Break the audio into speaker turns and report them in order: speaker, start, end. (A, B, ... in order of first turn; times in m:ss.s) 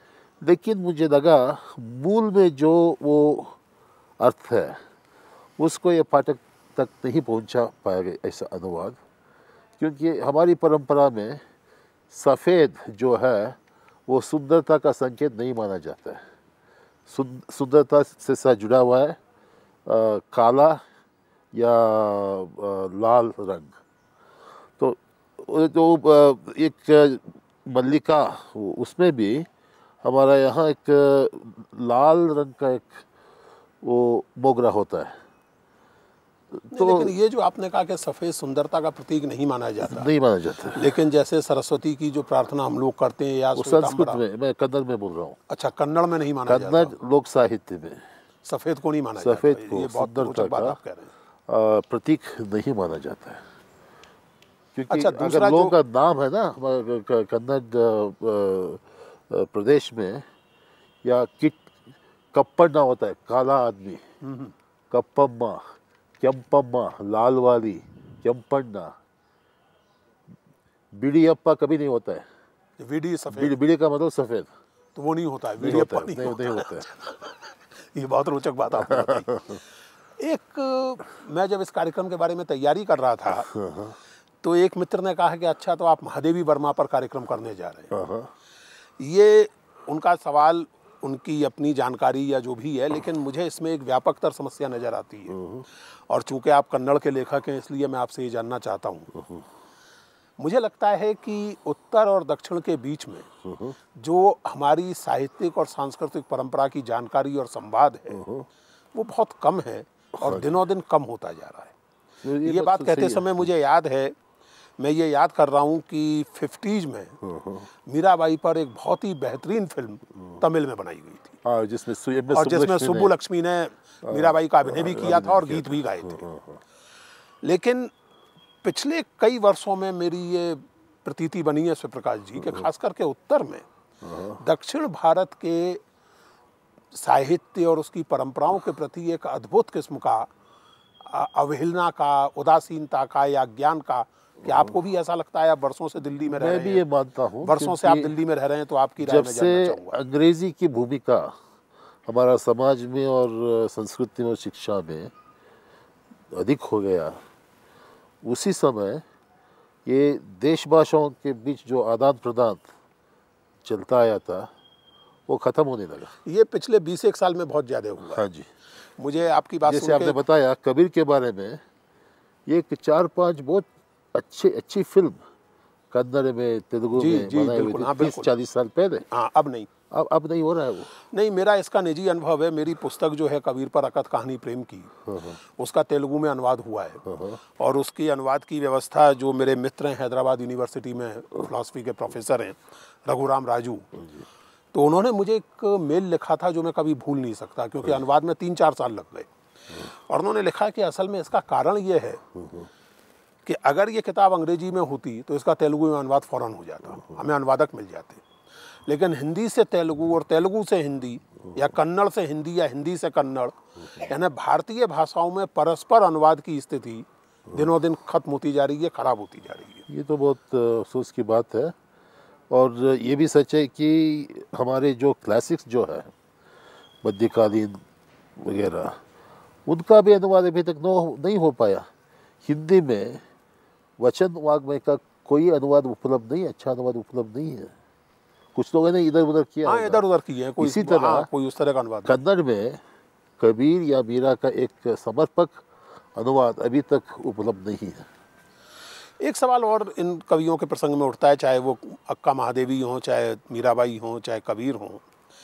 0:00.4-0:03.6 A
0:04.2-0:04.8 A
0:05.6-0:09.0 A
0:09.8-0:11.4 A
0:12.1-0:16.2 A
0:17.1-0:19.2 A
0:19.8-0:20.8 A
0:21.5-0:23.8 A
0:24.8-0:29.5 A
0:30.0-0:33.0 A
0:33.8-0:35.2 A
0:36.5-0:37.1 A
0:36.7-0:40.1 B
0:39.8-0:40.9 A
0:40.7-0:44.2 B
0:43.5-0:45.4 A
0:45.5-0:46.9 B
0:46.5-0:48.0 A
0:48.4-0:51.1 B
0:49.2-0:50.8 A
0:51.5-0:53.4 A
0:54.7-1:00.2 A
0:54.9-0:55.8 B
1:01.0-1:01.7 A
1:02.3-1:04.0 A
1:04.2-1:04.5 B
1:04.9-1:09.0 A
1:10.9-1:12.3 A
1:12.8-1:13.6 B
1:13.3-1:14.5 A
1:15.0-1:16.7 B
1:15.6-1:16.9 A
1:17.9-1:19.3 B
1:18.8-1:19.6 A
1:20.2-1:23.5 B
1:23.4-1:24.0 A
1:24.4-1:27.9 B
1:27.9-1:28.3 A
1:29.0-1:35.4 B
1:35.3-1:35.7 A
1:36.1-1:39.1 B
1:39.1-1:39.5 A
1:40.4-1:43.3 B
1:43.4-1:43.8 A
1:44.0-1:48.2 B
1:48.1-1:48.5 A
1:48.9-1:51.7 B
1:50.2-1:50.6 A
1:52.2-1:53.4 A
1:52.4-1:54.1 B
1:54.8-1:57.2 B
1:57.2-1:57.7 A
1:57.9-2:01.4 B
2:01.4-2:03.1 A
2:02.3-2:06.2 B
2:04.0-2:06.6 A
2:07.4-2:07.9 B
2:08.6-2:13.6 B
2:12.4-2:12.7 A
2:14.0-2:14.4 A
2:14.4-2:15.8 B
2:16.9-2:20.3 B
2:21.0-2:26.8 B
2:24.4-2:24.7 A
2:26.3-2:28.1 A
2:27.4-2:30.0 B
2:29.0-2:31.4 A
2:32.0-2:35.1 A
2:36.3-2:37.2 A
2:38.2-2:39.0 A
2:39.8-2:42.7 A
2:43.6-2:44.5 A
2:45.3-2:46.1 A
2:46.2-2:48.2 B
2:48.0-2:48.5 A
2:49.0-2:50.2 B
2:49.6-2:51.6 A
2:52.4-2:55.2 A
2:55.9-2:59.0 A
2:57.0-2:58.3 B
2:59.1-2:59.7 B
2:59.9-3:00.9 A
3:01.1-3:04.9 B
3:05.0-3:05.4 A
3:05.6-3:07.0 B
3:07.0-3:07.4 A
3:07.6-3:13.9 B
3:13.9-3:14.2 A
3:14.7-3:19.3 B
3:20.1-3:22.2 B
3:22.3-3:22.7 A
3:23.4-3:28.2 B
3:28.8-3:39.8 B
3:39.9-3:41.8 A
3:42.5-3:46.1 A
3:47.0-3:47.8 A
3:48.4-3:49.0 A
3:49.6-3:51.9 A
3:52.4-3:53.2 A
3:54.0-3:57.7 A
3:58.5-4:00.0 A
3:59.6-4:02.2 B
4:00.6-4:01.3 A
4:02.0-4:02.8 A
4:03.4-4:08.1 A
4:09.2-4:15.0 B